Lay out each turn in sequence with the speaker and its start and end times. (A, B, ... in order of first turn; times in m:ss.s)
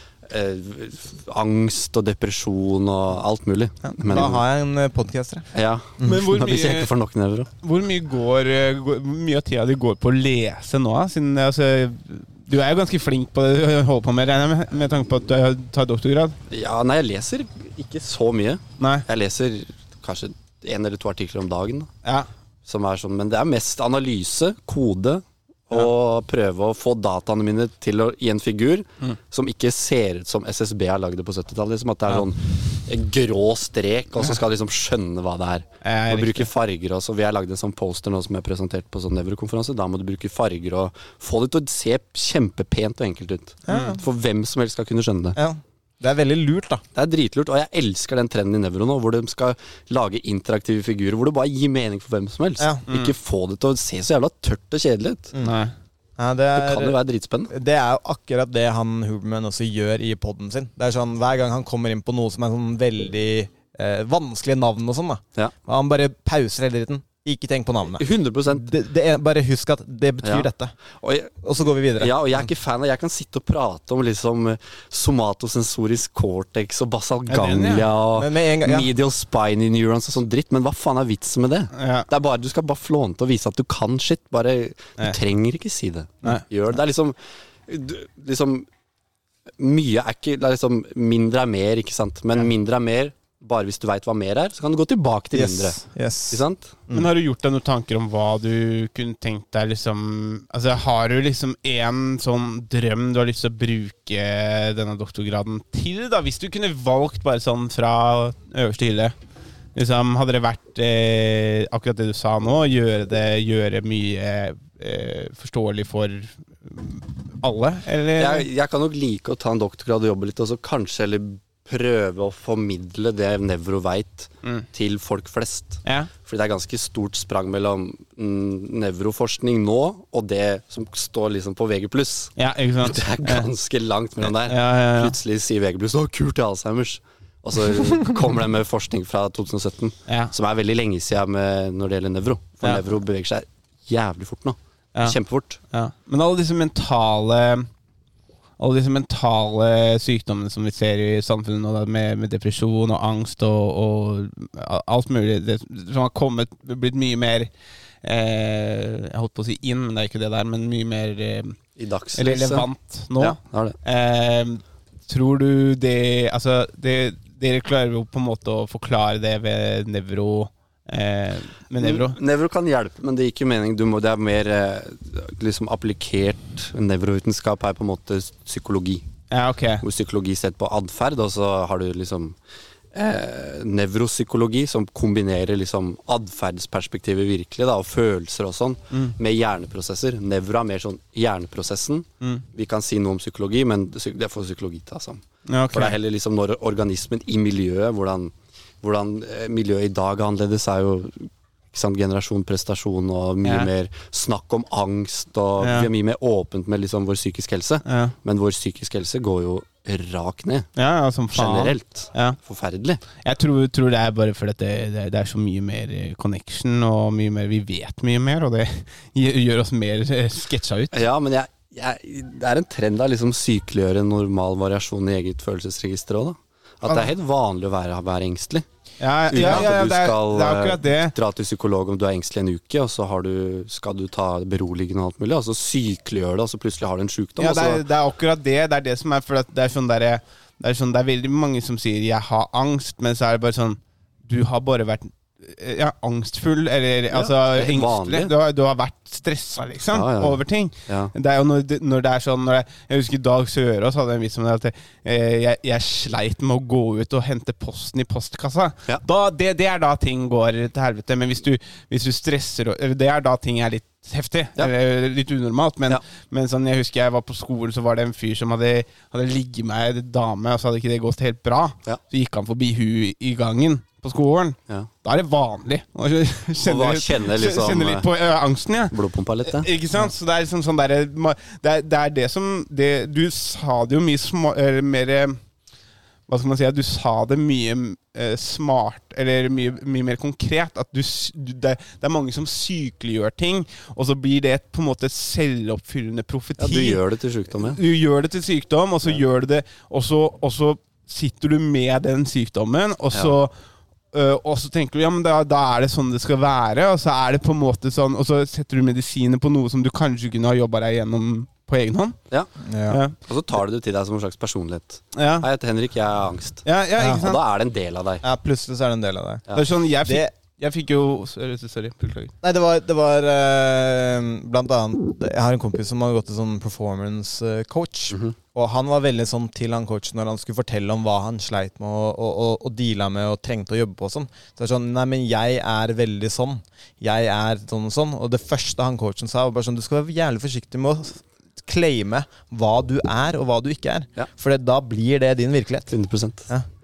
0:00.3-0:04.4 A
0:04.0-0:05.5 B
0:05.5-0:07.5 A
0:06.0-0:06.9 C
0:07.6-0:16.4 C
0:16.5-0:21.9 A
0:18.8-0:19.0 C
0:22.6-0:45.4 A
0:35.8-0:36.5 C
0:43.7-0:44.0 B
0:43.7-0:44.0 C
0:45.3-0:46.8 B
0:46.9-0:55.3 A
0:52.9-0:53.1 C
0:55.4-0:55.7 C
0:56.2-0:57.0 B
0:56.5-0:57.5 A
0:57.5-1:10.7 B
1:08.0-1:08.7 A
1:10.2-1:10.5 A
1:11.0-1:11.3 A
1:11.4-1:12.1 B
1:12.0-1:27.2 A
1:17.3-1:17.8 C
1:18.1-1:18.9 B
1:21.7-1:22.1 C
1:27.7-1:28.7 A
1:29.6-1:36.7 A
1:35.3-1:37.1 B
1:36.9-1:49.1 C
1:49.7-1:58.5 C
1:58.2-2:25.6 A
2:12.4-2:13.5 C
2:14.2-2:15.1 C
2:25.7-2:27.7 C
2:28.6-2:37.5 C
2:38.0-2:41.6 C
2:41.8-2:42.7 A
2:42.1-2:52.2 C
2:43.2-2:43.8 A
2:51.8-2:59.0 A
2:59.3-2:59.8 C
2:59.8-3:02.4 A
3:02.9-3:30.7 A
3:15.5-3:16.0 C
3:23.4-3:23.7 C
3:25.6-3:25.9 C
3:27.8-3:28.1 C
3:30.8-3:32.4 C
3:31.3-3:33.0 A
3:33.2-3:41.0 C
3:40.9-3:48.6 A
3:49.0-3:51.1 C
3:49.3-3:57.8 A
3:49.4-3:49.6 B
3:57.4-4:38.9 C
4:07.1-4:08.3 A
4:09.9-4:11.1 A
4:36.6-4:38.1 A
4:38.9-4:39.7 A
4:39.4-4:45.4 C
4:46.3-4:57.0 C
4:56.6-4:57.8 A
4:57.6-5:03.5 C
5:04.1-5:12.2 C
5:12.6-5:13.0 B
5:12.9-5:13.1 C
5:13.2-5:18.2 A
5:15.1-5:15.5 C
5:16.6-5:17.4 C
5:18.2-5:19.4 B
5:19.5-5:22.3 C
5:20.0-5:20.3 B
5:22.4-5:45.9 B
5:45.9-5:46.5 A